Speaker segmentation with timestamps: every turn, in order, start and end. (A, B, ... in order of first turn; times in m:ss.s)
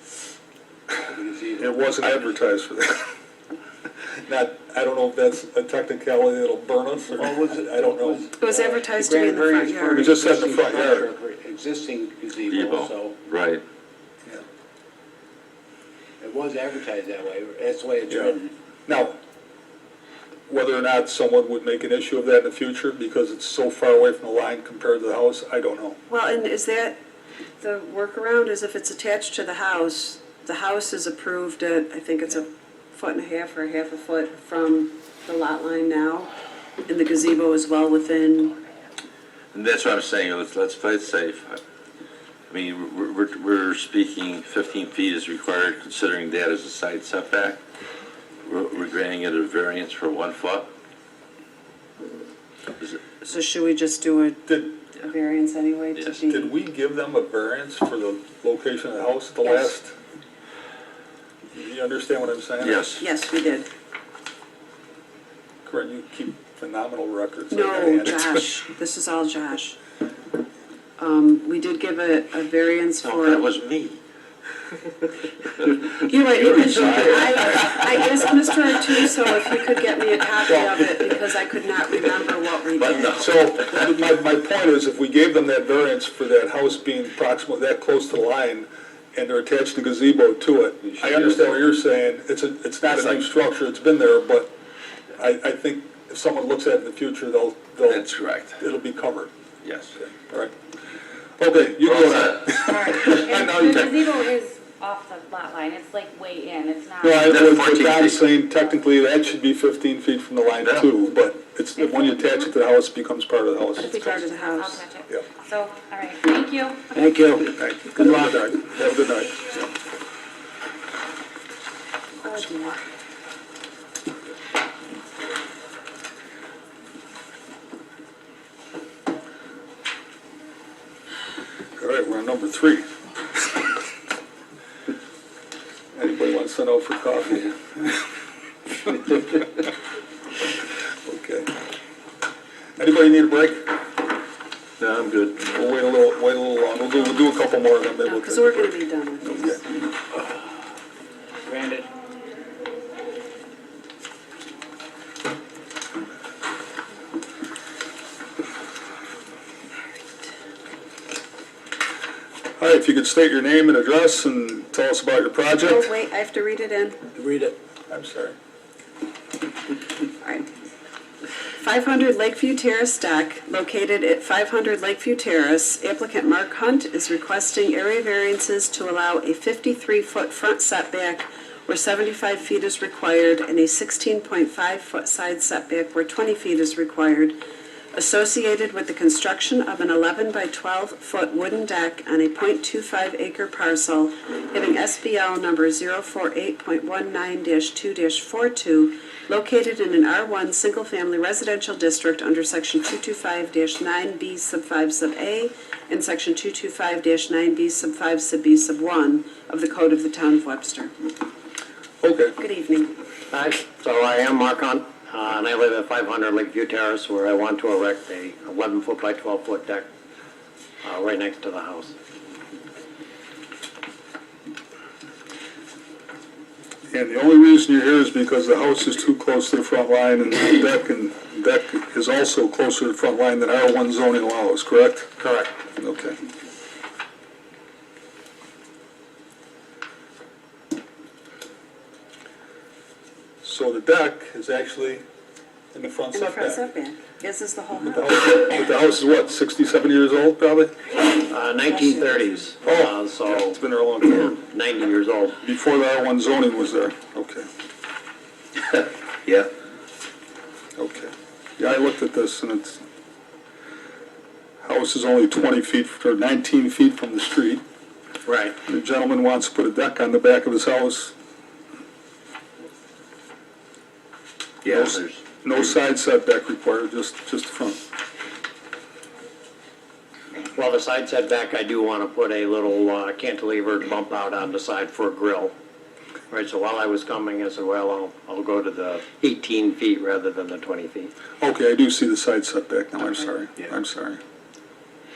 0:01.1-0:02.1 A
0:01.6-0:03.1 B
0:04.3-0:08.3 B
0:07.2-0:13.2 A
0:08.4-0:10.2 C
0:10.0-0:11.1 B
0:12.5-0:13.6 D
0:16.2-0:18.5 A
0:18.1-0:18.4 B
0:18.9-0:19.2 B
0:20.5-0:26.0 B
0:26.1-0:27.0 C
0:27.6-0:36.3 C
0:36.9-0:38.6 C
0:39.5-0:41.6 D
0:42.5-0:47.6 D
0:48.4-0:50.7 D
0:53.2-0:56.5 C
0:54.5-0:54.7 B
0:56.2-1:00.0 B
0:59.4-0:59.7 C
1:01.5-1:02.8 B
1:02.6-1:03.0 D
1:03.0-1:03.7 C
1:05.6-1:08.5 B
1:07.5-1:09.8 C
1:11.0-1:13.5 C
1:13.0-1:14.0 D
1:16.0-1:23.2 C
1:16.4-1:17.7 D
1:20.4-1:20.8 B
1:22.8-1:23.6 D
1:23.1-1:34.5 B
1:31.0-1:31.5 D
1:35.2-1:39.3 B
1:37.8-1:38.6 D
1:39.6-1:40.0 D
1:40.0-1:40.5 B
1:41.4-1:44.0 B
1:41.8-1:42.6 D
1:42.5-1:47.6 E
1:47.0-1:54.1 B
1:47.2-1:48.2 D
1:51.8-1:52.5 E
1:53.8-1:54.8 C
1:53.8-1:57.0 E
1:56.9-1:57.5 A
1:57.6-1:59.7 B
2:02.2-2:02.8 C
2:11.8-2:12.9 B
2:16.0-2:18.0 B
2:21.0-2:21.5 B
2:22.8-2:23.8 B
2:24.8-2:25.4 D
2:25.4-2:28.8 B
2:28.0-2:29.6 C
2:29.3-2:29.6 B
2:31.5-2:31.9 A
2:42.6-2:45.9 B
2:45.6-2:47.1 C
2:47.2-2:47.6 A
2:47.9-2:48.4 B
2:50.2-2:50.5 C
2:51.6-3:07.4 C
3:07.9-3:30.9 C
3:32.0-3:32.4 B
3:32.4-3:32.9 C
3:33.3-3:39.9 F
3:40.8-3:42.0 F
3:46.9-3:55.1 B
3:55.2-3:55.5 F
3:55.8-3:56.2 B
4:03.4-4:05.0 B
4:05.7-4:06.6 B
4:06.1-4:08.1 C
4:07.8-4:10.8 B
4:11.2-4:15.4 F
4:11.7-4:12.5 C
4:12.6-4:14.4 B
4:15.4-4:17.5 B
4:20.8-4:22.8 B
4:24.6-4:27.6 B
4:28.3-4:28.5 F
4:28.6-4:31.2 B
4:34.6-4:35.2 D
4:34.7-4:37.8 B
4:40.5-4:45.5 F
4:46.3-4:51.1 F
4:51.4-4:54.2 B